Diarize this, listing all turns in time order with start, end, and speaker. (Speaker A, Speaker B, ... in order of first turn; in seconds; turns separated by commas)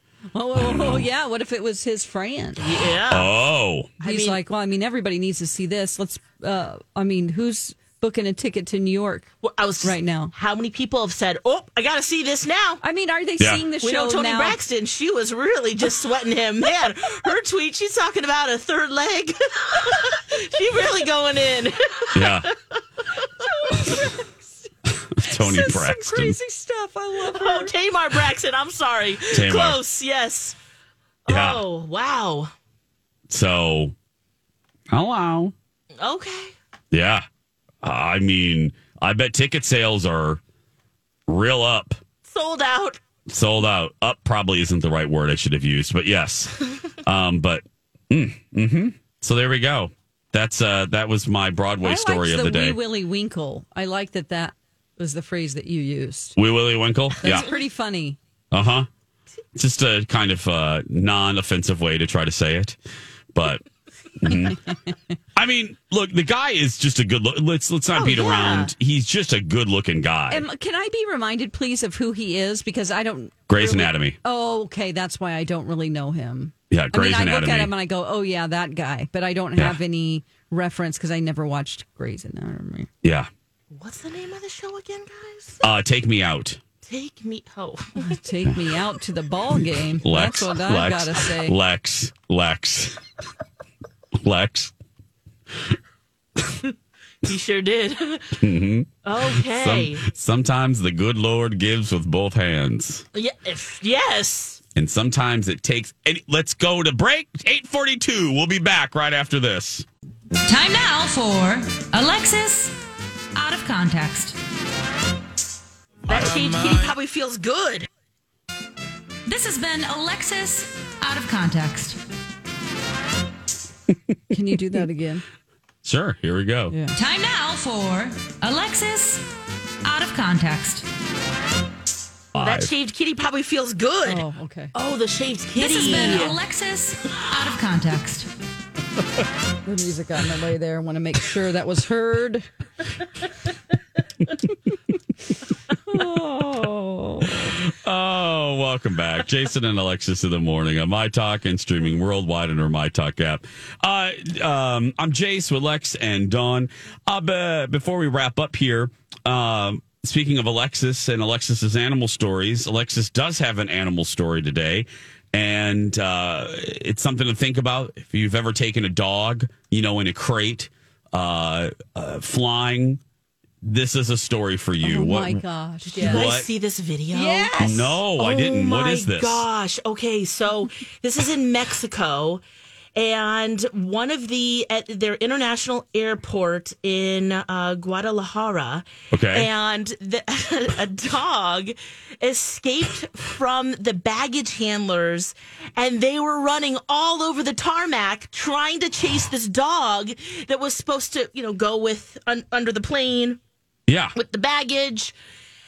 Speaker A: 0.3-2.6, Speaker B: 0.6-1.1, Speaker C: 2.6-3.3, Speaker B: 3.1-3.9, Speaker C: 4.0-4.4, Speaker A: 4.0-9.3, Speaker C: 9.4-12.8, Speaker A: 9.8-10.3, Speaker A: 12.8-14.6, Speaker C: 13.8-22.5, Speaker B: 22.1-22.5, Speaker A: 23.4-24.5, Speaker B: 25.2-26.4, Speaker A: 25.2-27.7, Speaker C: 27.3-30.6, Speaker B: 29.3-29.8, Speaker C: 31.3-32.5, Speaker B: 31.3-31.6, Speaker B: 33.3-33.9, Speaker B: 34.9-35.5, Speaker C: 36.0-36.5, Speaker B: 36.9-37.2, Speaker B: 37.8-40.4, Speaker B: 41.3-42.0, Speaker C: 42.2-43.0, Speaker B: 43.3-52.8, Speaker A: 51.8-56.4, Speaker B: 56.4-57.5, Speaker A: 57.2-58.2, Speaker B: 58.5-58.9, Speaker B: 59.5-62.8, Speaker B: 63.3-63.6, Speaker B: 64.2-64.6, Speaker B: 65.3-70.4, Speaker C: 67.9-68.7, Speaker A: 70.3-82.9, Speaker B: 73.5-74.2, Speaker B: 76.7-77.7, Speaker B: 83.0-83.3, Speaker C: 83.7-85.7, Speaker B: 85.6-86.6, Speaker C: 86.8-88.1, Speaker A: 88.0-91.6, Speaker B: 90.0-93.0, Speaker B: 94.2-94.7, Speaker C: 97.2-98.4, Speaker B: 98.4-103.1, Speaker C: 99.0-100.0, Speaker C: 103.1-104.6, Speaker B: 104.8-109.9, Speaker D: 110.5-112.8, Speaker D: 113.3-114.4, Speaker C: 116.1-117.9, Speaker D: 119.3-122.0, Speaker A: 124.3-125.2, Speaker B: 125.8-126.8, Speaker D: 126.9-129.3, Speaker D: 129.8-130.9, Speaker B: 132.3-132.7, Speaker C: 132.4-136.4, Speaker A: 134.1-134.7, Speaker D: 135.6-138.3, Speaker A: 135.6-136.3, Speaker A: 139.7-142.5, Speaker A: 145.9-147.6, Speaker B: 147.5-173.0, Speaker B: 173.6-175.4, Speaker A: 174.8-176.3, Speaker C: 175.8-182.4, Speaker B: 176.0-176.5, Speaker A: 177.1-178.0, Speaker B: 177.6-179.4, Speaker C: 182.9-203.4, Speaker B: 189.1-189.5, Speaker B: 203.9-204.1, Speaker C: 204.2-205.1